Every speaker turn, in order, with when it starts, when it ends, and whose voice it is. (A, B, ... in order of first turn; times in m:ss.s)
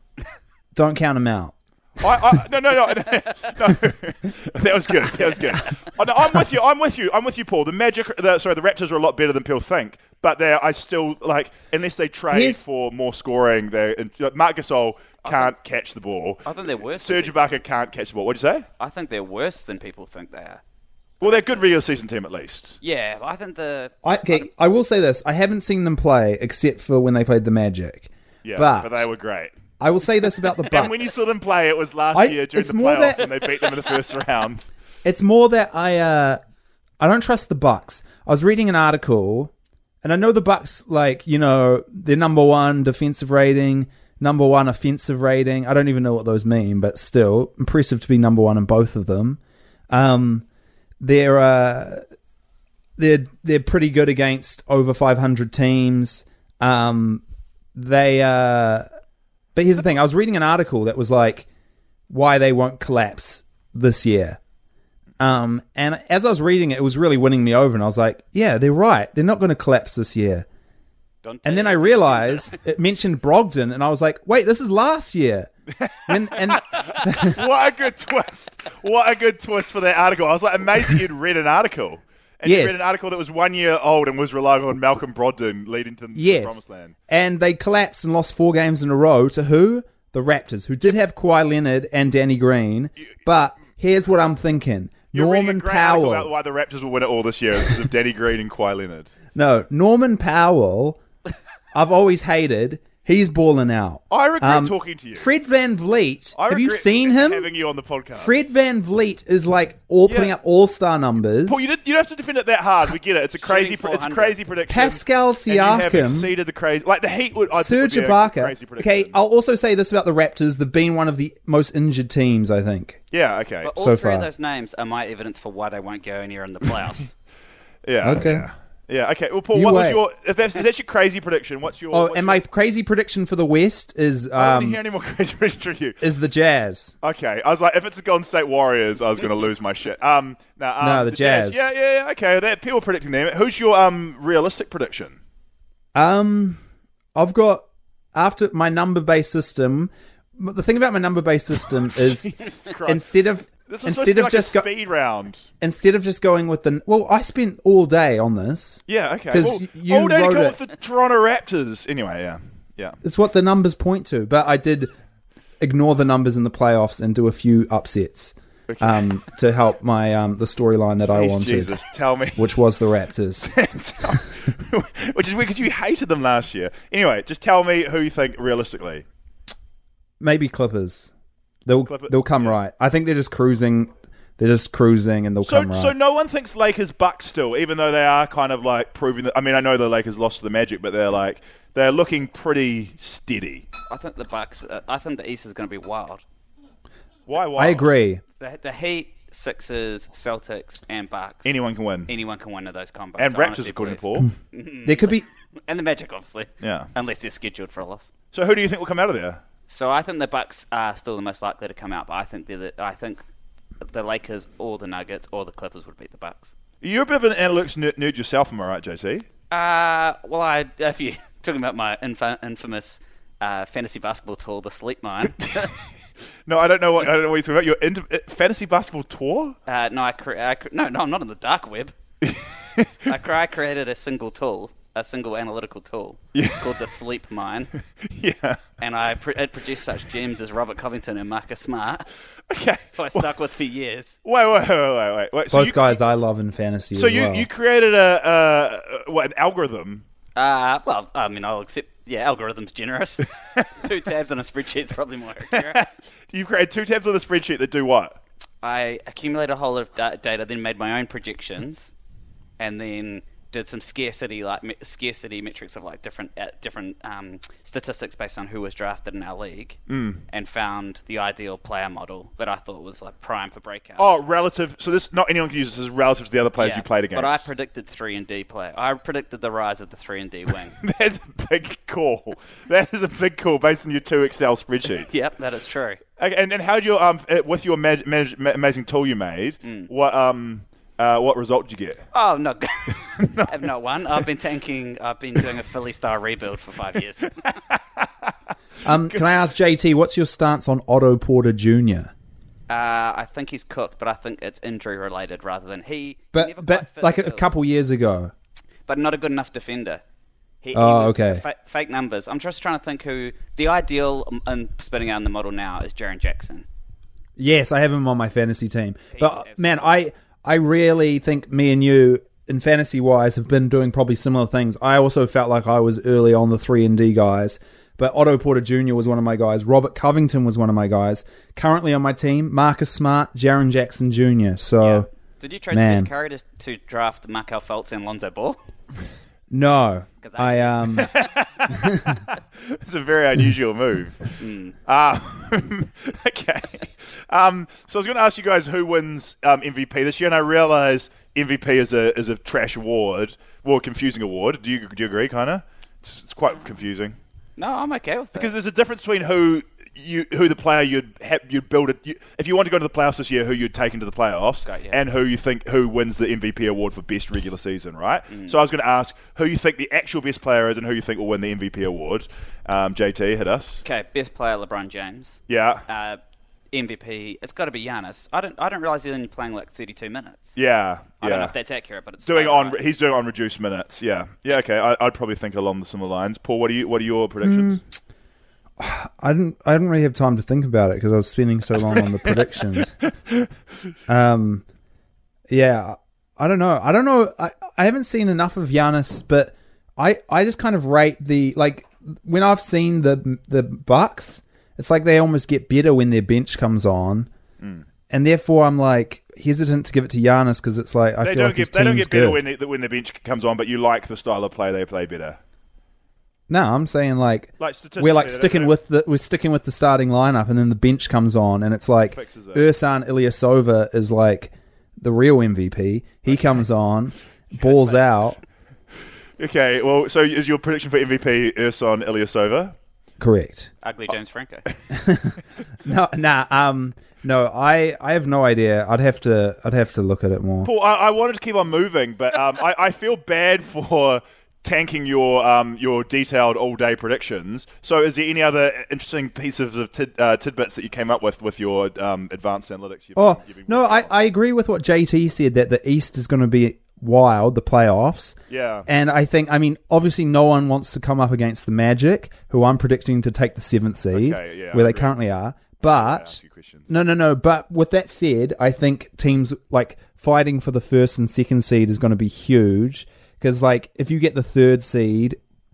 0:00.8-0:01.5 A
0:02.0-0:18.7 B
0:12.3-0:12.6 A
0:15.2-0:15.5 C
0:16.4-0:17.4 C
0:18.8-0:20.6 C
0:21.2-0:21.6 C
0:21.2-0:22.8 B
0:22.8-0:24.0 C
0:24.0-0:29.1 A
0:28.4-0:29.5 B
0:29.8-0:31.2 A
0:30.7-0:34.7 B
0:32.1-0:33.3 A
0:35.0-0:36.4 A
0:37.0-0:39.5 A
0:40.0-0:50.4 A
0:51.0-0:52.0 A
0:53.0-0:57.2 A
0:57.8-0:58.9 A
0:59.6-1:01.5 A
1:02.1-1:04.4 A
1:05.2-1:10.5 A
1:11.2-1:12.6 C
1:11.4-1:15.5 A
1:15.8-1:27.0 B
1:16.1-1:17.4 A
1:22.4-1:22.9 A
1:26.2-1:36.3 A
1:35.1-1:39.1 B
1:39.4-1:41.0 A
1:41.7-1:47.5 A
1:44.1-1:45.3 B
1:46.4-1:48.4 B
1:48.2-1:51.6 A
1:50.1-1:50.4 B
1:51.5-1:59.2 B
1:53.4-1:54.4 C
1:54.7-1:56.3 A
1:57.5-2:03.0 A
2:03.1-2:03.7 B
2:03.6-2:07.1 C
2:03.8-2:04.3 A
2:07.8-2:12.4 B
2:08.0-2:08.5 A
2:09.5-2:10.0 A
2:11.9-2:14.8 A
2:14.4-2:16.0 B
2:16.0-2:17.0 A
2:17.0-2:25.2 B
2:20.8-2:21.7 A
2:26.0-2:26.6 A
2:27.2-2:34.7 A
2:32.0-2:33.1 B
2:33.7-2:35.5 B
2:35.6-2:40.6 A
2:38.9-2:43.0 B
2:43.0-2:44.9 A
2:45.6-2:51.7 A
2:48.7-2:49.1 B
2:51.1-2:52.6 B
2:52.4-2:53.5 A
2:53.4-2:59.0 B
3:00.2-3:01.1 A
3:01.7-3:05.9 A
3:01.9-3:02.6 B
3:05.4-3:13.7 B
3:13.9-3:16.2 C
3:17.3-3:17.9 B
3:17.6-3:18.2 A
3:18.4-3:21.5 C
3:21.4-3:22.1 B
3:22.1-3:28.1 C
3:23.2-3:24.3 B
3:24.8-3:25.3 A
3:26.6-3:26.9 B
3:28.3-3:29.4 B
3:29.7-3:33.2 C
3:33.8-3:36.5 C
3:36.8-3:39.3 B
3:39.5-3:45.7 C
3:46.5-3:49.6 B
3:49.7-3:52.0 C
3:52.2-3:52.9 B
3:53.1-3:57.7 C
3:56.3-3:56.8 B
3:58.1-3:58.6 B
3:58.8-4:02.1 C
4:02.5-4:03.3 B
4:03.0-4:04.2 C
4:04.2-4:06.0 B
4:05.5-4:07.5 A
4:06.9-4:10.0 B
4:10.4-4:15.8 C
4:15.6-4:18.2 B
4:18.6-4:21.9 C
4:22.6-4:34.1 C
4:29.9-4:30.2 B
4:34.0-4:37.5 B
4:36.6-4:40.8 C
4:40.8-4:45.1 B
4:45.1-4:46.0 C
4:46.2-4:52.0 B
4:49.6-4:49.9 C
4:52.1-4:57.6 C
4:53.2-4:53.6 B
4:57.7-4:58.0 B
4:58.8-5:02.1 A
5:02.7-5:07.5 C
5:06.3-5:08.3 A
5:08.9-5:10.0 C
5:10.6-5:16.7 C
5:10.7-5:11.4 A
5:17.4-5:35.1 A
5:19.1-5:19.9 C
5:34.8-5:38.6 C
5:35.7-5:36.1 A
5:39.5-5:41.1 A
5:40.2-5:41.0 C
5:41.0-5:57.2 B
5:41.8-5:42.2 A
5:44.4-5:44.8 C
5:57.6-5:58.5 C
5:58.4-6:13.8 B
6:04.7-6:05.0 C
6:08.3-6:08.6 C
6:13.8-6:16.2 C
6:15.5-6:15.8 B
6:16.7-6:20.6 C
6:20.6-6:21.5 B
6:21.2-6:22.8 C
6:22.2-6:27.8 B
6:27.4-6:27.8 A
6:28.8-6:33.0 A
6:34.1-6:34.6 A
6:35.5-6:47.3 A
6:48.1-6:52.4 A
6:51.2-6:55.4 B
6:56.5-7:08.4 A
6:57.6-6:58.7 B
7:02.1-7:02.7 B
7:07.6-7:08.3 C
7:09.4-7:12.8 B
7:13.2-7:13.7 A
7:13.8-7:14.7 C
7:14.9-7:20.7 A
7:20.6-7:34.1 B
7:33.2-7:46.4 A
7:38.5-7:38.9 B
7:44.1-7:45.1 B
7:45.8-7:46.9 B
7:46.9-7:55.4 A